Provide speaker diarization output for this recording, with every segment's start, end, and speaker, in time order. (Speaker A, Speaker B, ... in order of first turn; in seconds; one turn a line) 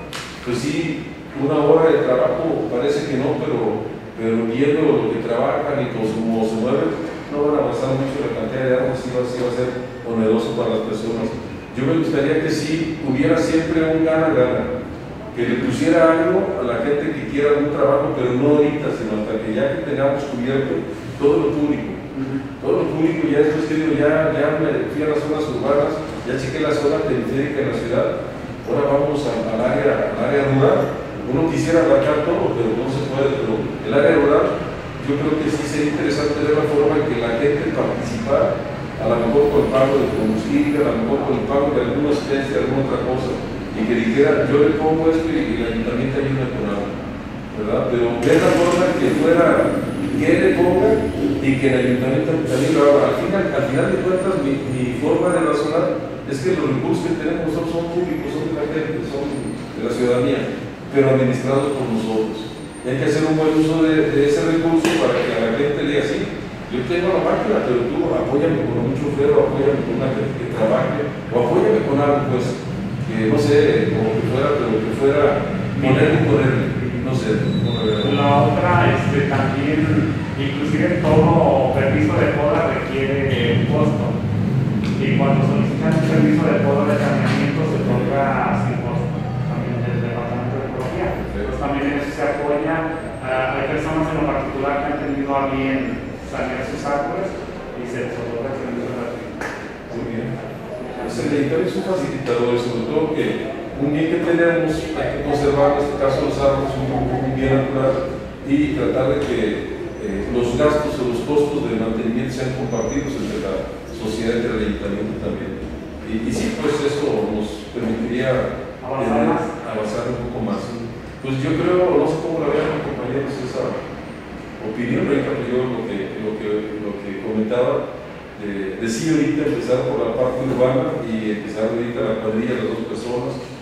Speaker A: 0.4-14.7
Speaker A: 15.3-22.0
Speaker B: 15.4-15.8
Speaker B: 22.1-22.4
Speaker A: 22.6-28.1
Speaker A: 28.6-47.0
Speaker A: 47.5-78.2
Speaker B: 75.8-76.2
Speaker B: 78.0-84.1
Speaker B: 85.0-99.4
Speaker A: 91.2-91.5
Speaker A: 99.9-100.3
Speaker B: 100.8-101.4
Speaker A: 101.0-123.8
Speaker B: 118.8-119.5
Speaker A: 124.6-127.8
Speaker A: 128.3-133.4